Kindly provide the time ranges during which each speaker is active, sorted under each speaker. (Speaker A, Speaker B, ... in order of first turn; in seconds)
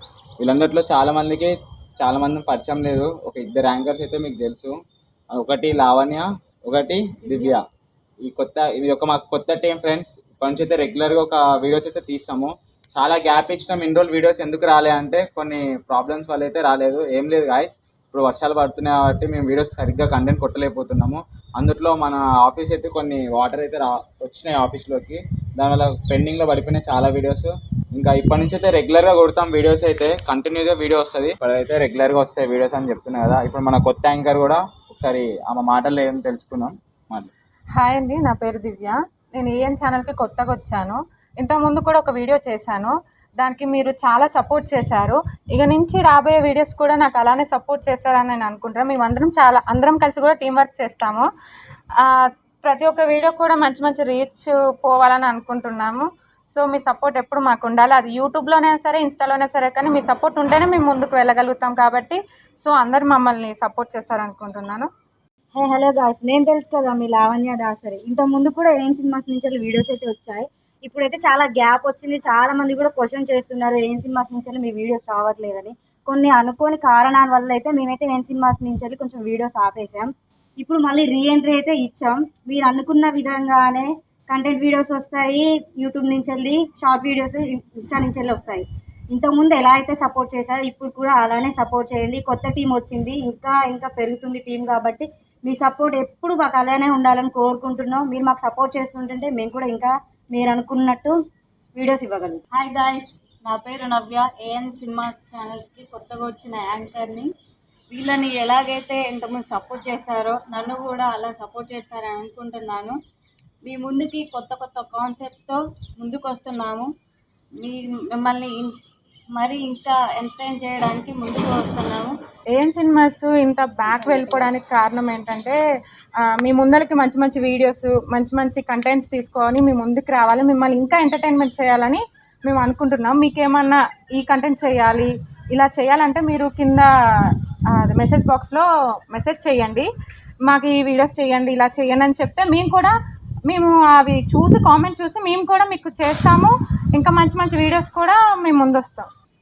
Speaker A: 0.4-4.7, 5.3-7.6, 8.2-37.3
Speaker B: 37.8-51.3, 52.0-64.9, 122.6-125.6, 126.4-139.9, 140.4-142.9, 143.5-149.1
Speaker C: 65.5-101.2, 101.8-102.4
Speaker D: 102.5-107.3, 107.9-113.0, 113.7-116.9, 117.6-118.7, 119.4-122.1, 124.0-124.5